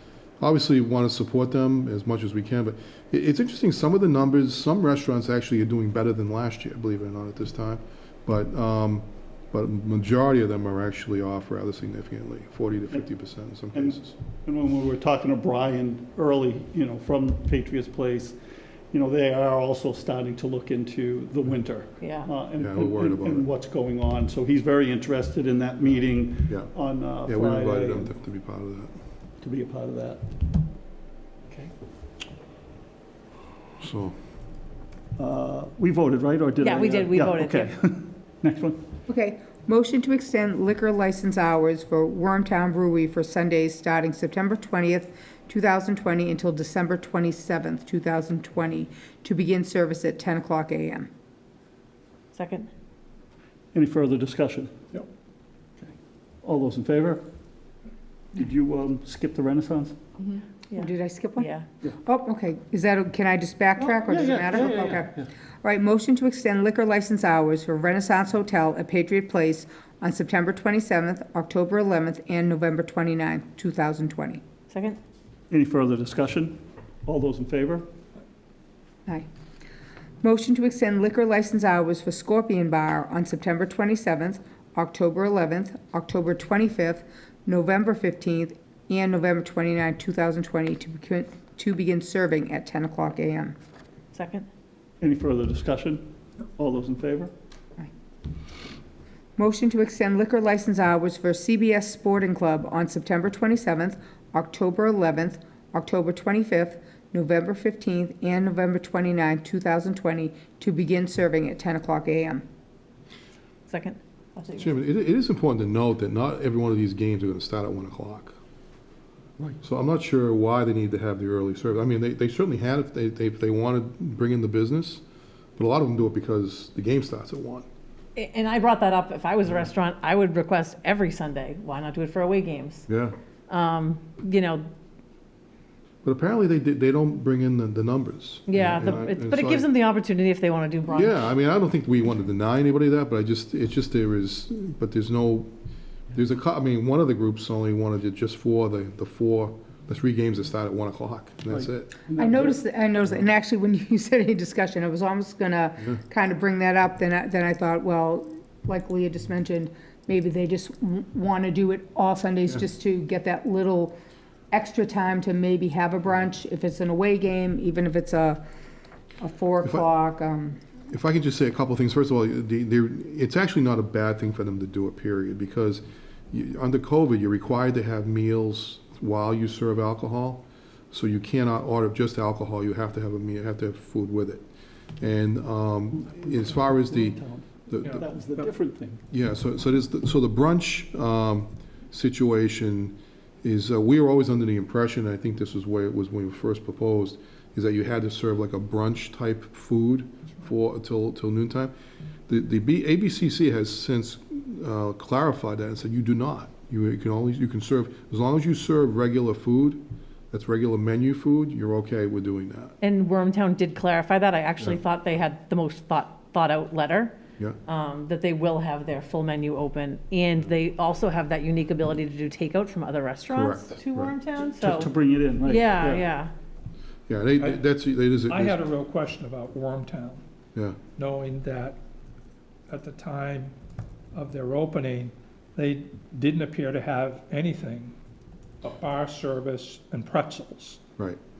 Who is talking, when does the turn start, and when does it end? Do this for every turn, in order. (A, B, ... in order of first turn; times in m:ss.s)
0:00.4-0:14.1 A
0:13.7-0:18.4 B
0:18.9-0:28.1 B
0:22.0-0:22.3 C
0:22.6-0:23.4 A
0:27.3-0:28.9 A
0:29.4-0:30.3 B
0:33.8-0:34.1 A
0:35.2-0:38.8 B
0:36.6-0:37.7 C
0:39.1-0:51.1 D
0:52.3-0:52.7 C
0:53.7-0:54.9 B
0:56.4-0:57.2 B
0:58.3-1:00.1 B
1:00.7-1:01.5 D
1:00.7-1:01.6 C
1:02.0-1:14.4 D
1:03.8-1:05.3 B
1:14.7-1:15.0 C
1:15.5-1:17.8 B
1:20.2-1:33.6 D
1:34.1-1:34.5 C
1:35.0-1:37.3 B
1:39.4-1:52.4 D
1:53.6-1:54.7 C
1:54.6-1:58.3 A
1:59.6-2:05.0 A
2:05.6-2:07.6 A
2:08.2-2:12.8 C
2:12.9-2:13.1 A
2:13.5-2:14.7 C
2:16.0-2:19.7 A
2:18.5-2:21.3 C
2:20.9-2:25.5 A
2:26.1-2:32.0 A
2:31.5-2:32.6 B
2:32.1-2:43.9 D
2:44.5-2:48.4 D
2:49.2-2:50.6 D
2:50.9-3:04.4 A
3:05.0-3:08.0 A
3:06.0-3:09.0 B
3:09.1-3:21.7 A
3:22.3-3:32.7 A
3:32.8-3:44.9 C
3:43.3-3:44.1 A
3:44.6-3:46.0 B
3:45.4-3:46.3 C
3:47.1-3:48.6 A
3:48.2-3:50.2 E
3:51.0-3:51.8 E
3:52.7-3:53.5 E
3:54.1-3:57.9 E
3:58.6-4:00.8 E